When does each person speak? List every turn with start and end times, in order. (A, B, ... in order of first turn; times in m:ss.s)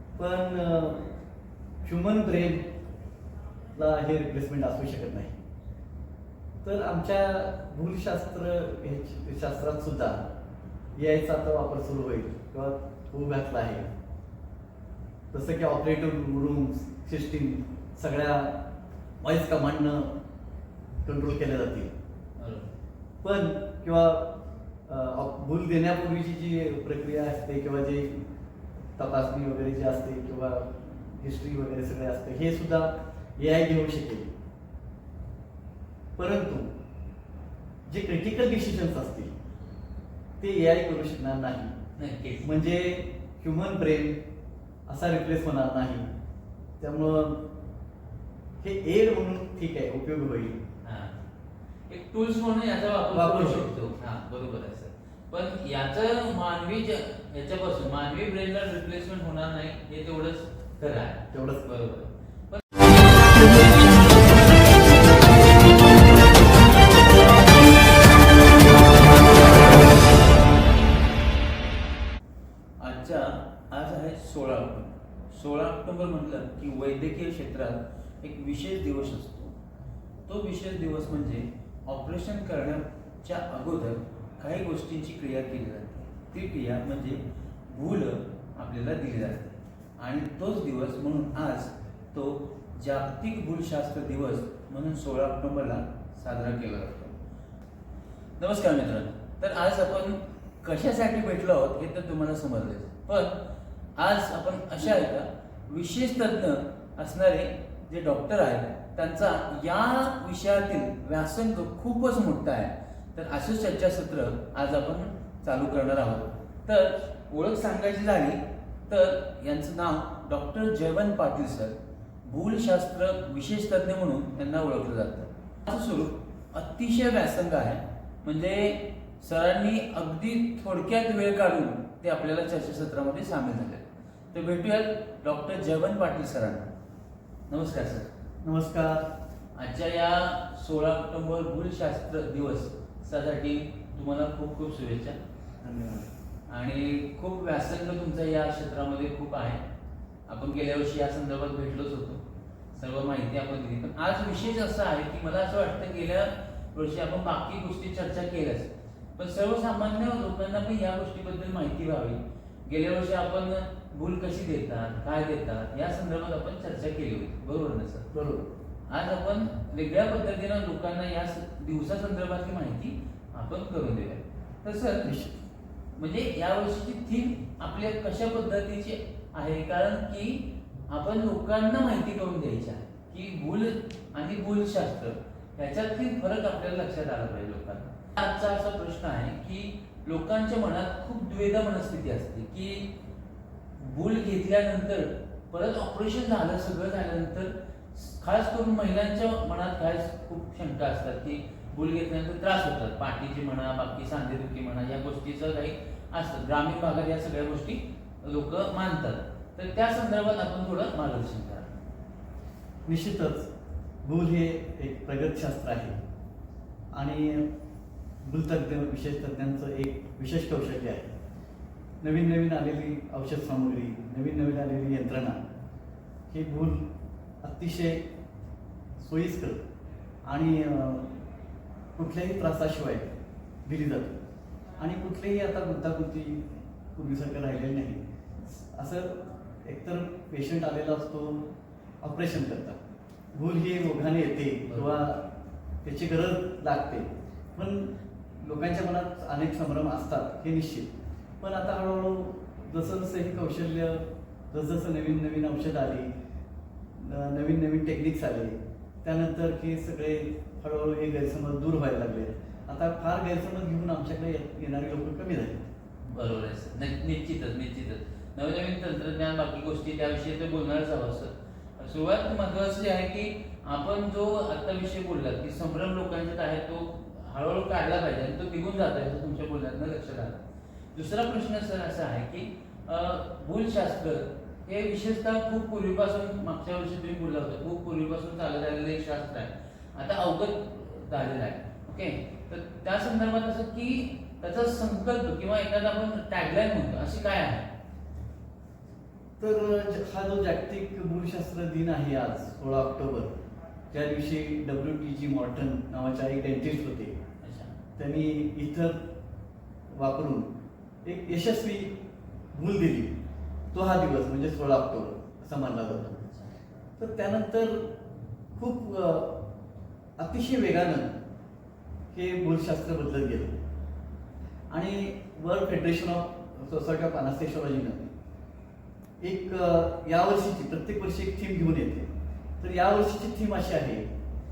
0:00.2-0:01.1 A
0:01.8-0:02.6 A
0:03.7-0:05.4 A
0:06.6-0:10.2 A
0:11.0-0:13.9 A
0:15.3-0:18.6 A
0:19.2-0:20.1 A
0:21.0-0:21.9 A
0:22.4-0:22.7 B
0:23.2-0:28.2 A
0:29.0-0:34.3 A
0:36.2-0:36.7 A
0:37.8-0:39.3 A
0:40.4-0:41.8 A
0:42.0-0:42.6 B
0:42.4-0:44.2 A
0:44.9-0:46.1 A
0:46.8-0:47.5 A
0:48.6-0:50.6 A
0:50.8-0:51.2 B
0:51.9-1:02.8 B
0:53.1-0:53.7 A
1:01.3-1:01.6 A
1:12.8-1:19.6 B
1:20.3-1:37.2 B
1:38.4-1:43.4 B
1:44.0-2:16.7 B
2:17.5-2:18.1 B
2:18.4-2:19.1 A
2:19.6-2:25.2 B
2:25.6-2:26.1 A
2:26.5-2:29.6 B
2:30.3-2:32.2 B
2:32.7-2:48.1 B
2:48.1-2:48.5 A
2:48.9-2:55.1 B
2:55.0-2:55.4 A
2:56.0-3:12.9 B
3:13.8-3:31.7 B
3:32.9-3:33.5 A
3:34.0-3:36.0 A
3:36.9-3:37.5 A
3:38.2-3:41.1 A
3:42.0-3:45.4 A
3:46.3-3:46.9 A
3:47.4-3:48.0 A
3:49.0-3:49.6 A
3:50.2-3:51.1 A
3:52.0-3:53.1 A
3:53.7-3:54.2 A
3:54.8-4:01.5 A
4:02.0-4:02.8 A
4:03.3-4:05.3 A
4:04.7-4:05.0 B
4:05.8-4:16.1 A
4:17.0-4:25.6 A
4:26.1-4:40.4 B
4:40.9-4:57.7 B
4:59.4-5:03.3 A
5:03.9-5:07.1 A
5:07.4-5:07.7 B
5:08.0-5:09.0 A
5:09.9-5:10.5 A
5:11.0-5:11.9 A
5:12.5-5:13.1 A
5:13.7-5:16.2 A
5:16.1-5:16.5 B
5:17.0-5:18.0 A
5:18.6-5:19.4 A
5:20.2-5:21.2 A
5:22.1-5:23.6 A
5:24.7-5:28.1 A
5:29.2-5:34.1 A